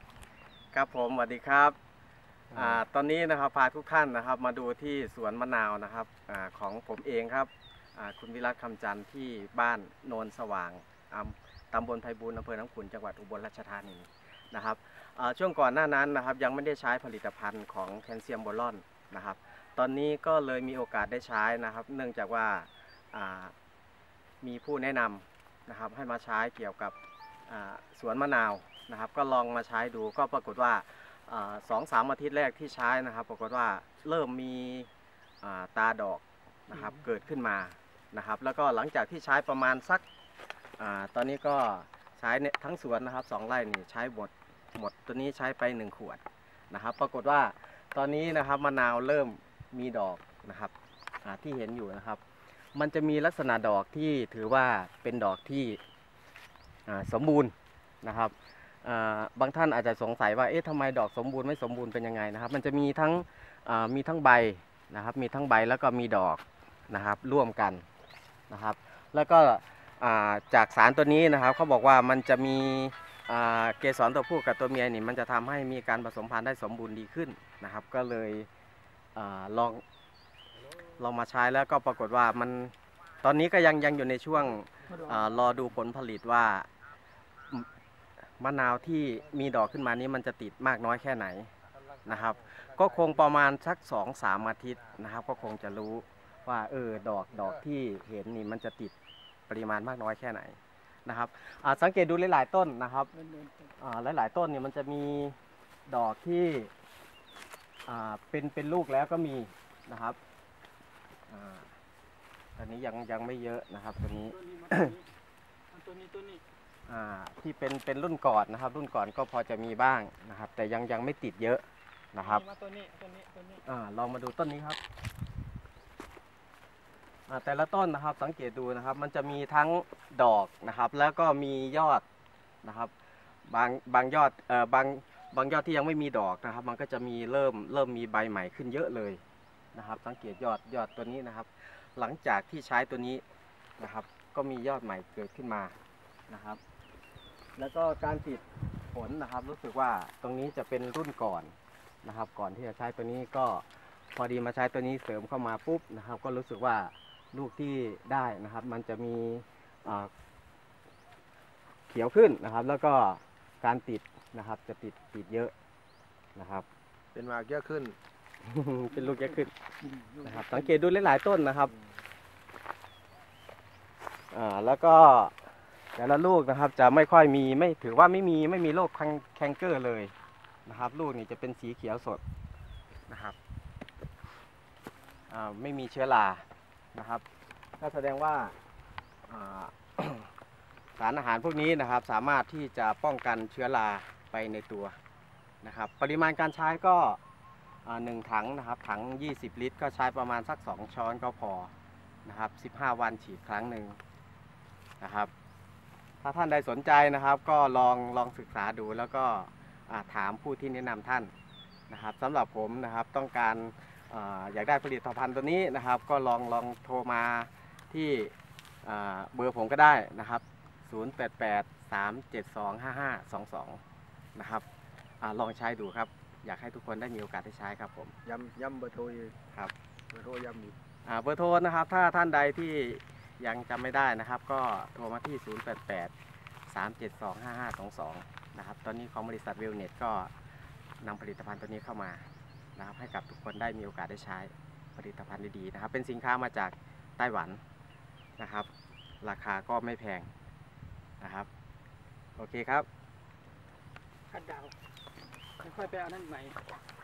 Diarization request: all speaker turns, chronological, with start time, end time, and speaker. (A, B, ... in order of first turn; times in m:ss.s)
0:00.7-0:01.8 A
0:02.5-0:23.5 A
0:24.4-0:26.9 A
0:27.5-0:34.9 A
0:35.4-0:40.0 A
0:40.8-0:50.7 A
0:51.2-0:52.2 A
0:52.7-0:55.8 A
0:56.9-1:07.8 A
1:08.5-1:18.5 A
1:19.1-1:19.8 A
1:21.0-1:26.7 A
1:28.4-1:31.5 A
1:32.0-1:38.9 A
1:39.5-1:43.1 A
1:43.1-1:43.7 B
1:43.8-1:45.4 A
1:45.9-1:46.7 A
1:47.8-1:50.2 A
1:51.3-1:51.7 A
1:52.6-1:54.9 A
1:54.3-1:55.0 B
1:55.7-1:56.4 B
1:56.9-2:02.4 A
2:02.2-2:03.6 B
2:03.6-2:04.8 A
2:07.3-2:12.0 A
2:12.6-2:12.9 A
2:13.5-2:19.2 A
2:19.7-2:23.2 A
2:23.8-2:25.7 A
2:26.3-2:26.6 A
2:27.6-2:31.5 A
2:32.0-2:40.1 A
2:41.9-2:45.5 A
2:46.4-2:46.6 A
2:47.1-2:48.0 C
2:48.4-2:49.5 A
2:50.1-2:50.6 B
2:50.2-2:51.7 A
2:54.3-2:55.3 A
2:55.9-3:00.1 A
3:00.6-3:02.2 A
3:03.1-3:03.4 A
3:05.3-3:07.2 A
3:07.8-3:08.5 A
3:09.3-3:10.3 A
3:11.0-3:14.9 A
3:15.6-3:17.2 A
3:17.8-3:21.7 A
3:22.2-3:24.0 A
3:25.0-3:25.3 A
3:26.2-3:31.3 A
3:31.9-3:38.3 A
3:38.8-3:43.8 A
3:44.4-3:44.6 A
3:45.2-3:48.2 A
3:48.2-3:49.4 C
3:50.1-3:50.8 C
3:51.0-3:56.1 A
3:56.7-4:00.3 A
4:01.0-4:07.6 A
4:08.4-4:08.7 A
4:09.2-4:10.3 A
4:11.2-4:11.5 A
4:12.4-4:12.9 A
4:14.3-4:14.7 B
4:15.6-4:16.6 B